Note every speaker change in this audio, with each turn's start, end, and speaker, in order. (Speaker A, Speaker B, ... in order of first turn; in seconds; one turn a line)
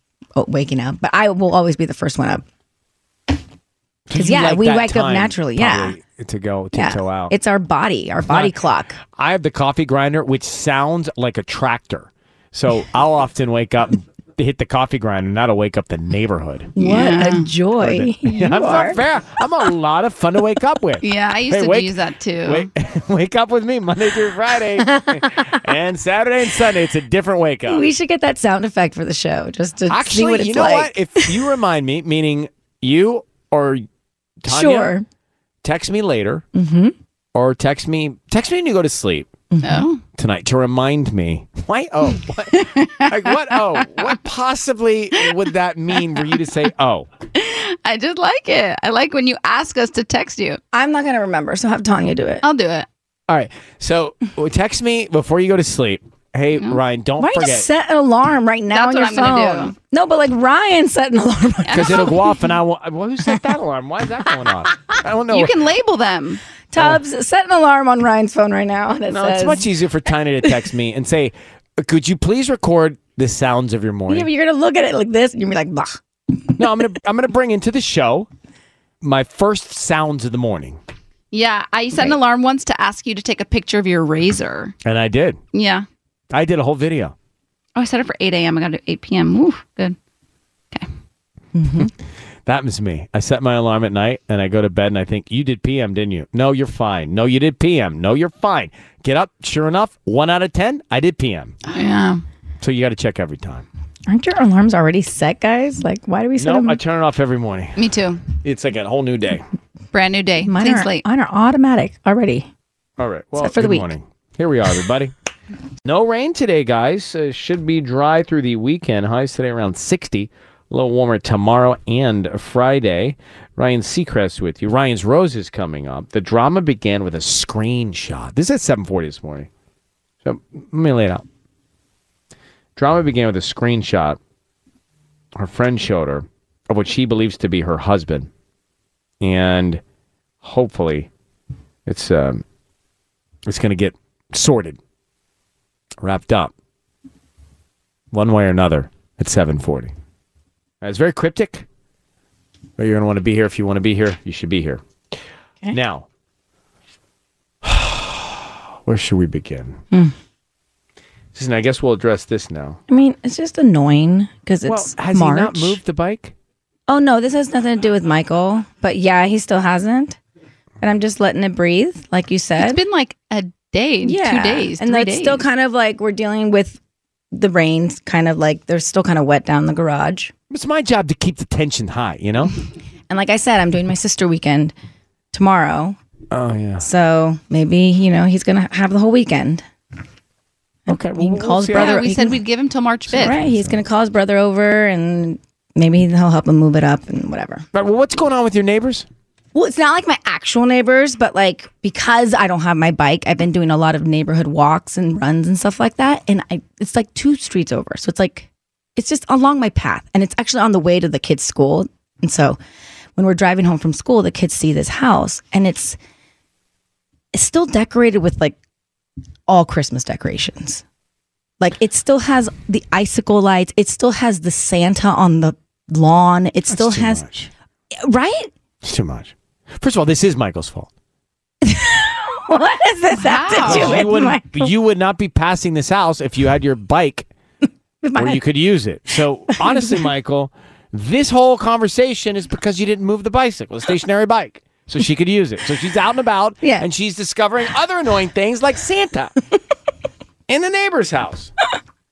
Speaker A: 0.4-2.4
Speaker B: 4.1-7.3
Speaker A: 4.1-6.0
Speaker A: 6.7-9.0
Speaker B: 8.3-8.5
Speaker B: 9.2-16.7
Speaker C: 16.8-17.5
Speaker A: 16.8-19.0
Speaker B: 17.8-27.9
Speaker C: 21.0-22.7
Speaker A: 27.7-31.3
Speaker B: 29.9-33.9
Speaker B: 34.4-35.0
Speaker A: 34.5-35.0
Speaker B: 35.6-36.5
Speaker A: 36.5-36.9
Speaker B: 37.3-39.3
Speaker A: 39.5-39.9
Speaker C: 39.6-40.0
Speaker B: 40.1-47.1
Speaker C: 42.6-44.1
Speaker C: 47.4-50.6
Speaker A: 50.7-52.4
Speaker C: 52.4-52.9
Speaker B: 53.3-57.7
Speaker A: 57.2-62.2
Speaker C: 58.7-59.8
Speaker C: 61.6-62.2
Speaker B: 61.7-65.6
Speaker C: 65.3-66.4
Speaker A: 66.7-69.7
Speaker B: 69.1-74.3
Speaker A: 74.1-76.0
Speaker B: 76.6-78.3
Speaker B: 79.0-80.8
Speaker C: 81.3-84.8
Speaker B: 84.8-85.4
Speaker C: 85.5-85.9
Speaker B: 86.3-87.2
Speaker C: 87.8-90.0
Speaker A: 91.5-91.9
Speaker B: 92.5-101.6
Speaker C: 101.7-102.2
Speaker B: 102.6-103.7
Speaker A: 104.1-106.8
Speaker B: 106.4-107.8
Speaker C: 107.8-108.2
Speaker B: 108.4-109.5
Speaker C: 109.9-111.0
Speaker A: 110.4-112.5
Speaker B: 113.0-115.1
Speaker A: 113.4-113.9
Speaker B: 115.8-129.5
Speaker B: 130.2-131.2
Speaker B: 132.8-134.2
Speaker B: 135.3-138.3
Speaker B: 139.2-139.8
Speaker B: 140.4-141.1
Speaker B: 141.9-142.4
Speaker B: 143.5-144.8
Speaker B: 146.0-146.5
Speaker B: 148.1-149.9
Speaker B: 150.8-151.7
Speaker B: 152.8-154.8
Speaker B: 155.7-156.1
Speaker B: 157.6-159.8
Speaker B: 161.3-162.8
Speaker A: 162.9-165.8
Speaker B: 164.7-166.3
Speaker A: 166.9-170.2
Speaker A: 170.8-172.8
Speaker C: 172.6-175.4
Speaker A: 174.0-176.8
Speaker A: 177.3-180.3
Speaker B: 180.5-182.5
Speaker A: 183.1-184.7
Speaker A: 185.3-186.0
Speaker B: 186.3-186.9
Speaker A: 186.8-189.7
Speaker A: 190.9-192.4
Speaker B: 190.9-192.1
Speaker C: 191.7-193.3
Speaker A: 193.1-197.7
Speaker B: 193.2-193.8
Speaker B: 197.7-199.1
Speaker A: 199.5-212.6
Speaker A: 213.2-216.0
Speaker A: 217.3-218.6
Speaker A: 219.5-220.8
Speaker A: 221.6-227.2
Speaker B: 226.7-227.5
Speaker A: 228.0-228.5
Speaker B: 228.8-230.9
Speaker A: 231.6-234.7
Speaker C: 233.1-234.1
Speaker B: 233.7-237.3
Speaker A: 238.0-238.4
Speaker B: 238.2-249.3
Speaker A: 239.5-240.0
Speaker B: 250.5-251.5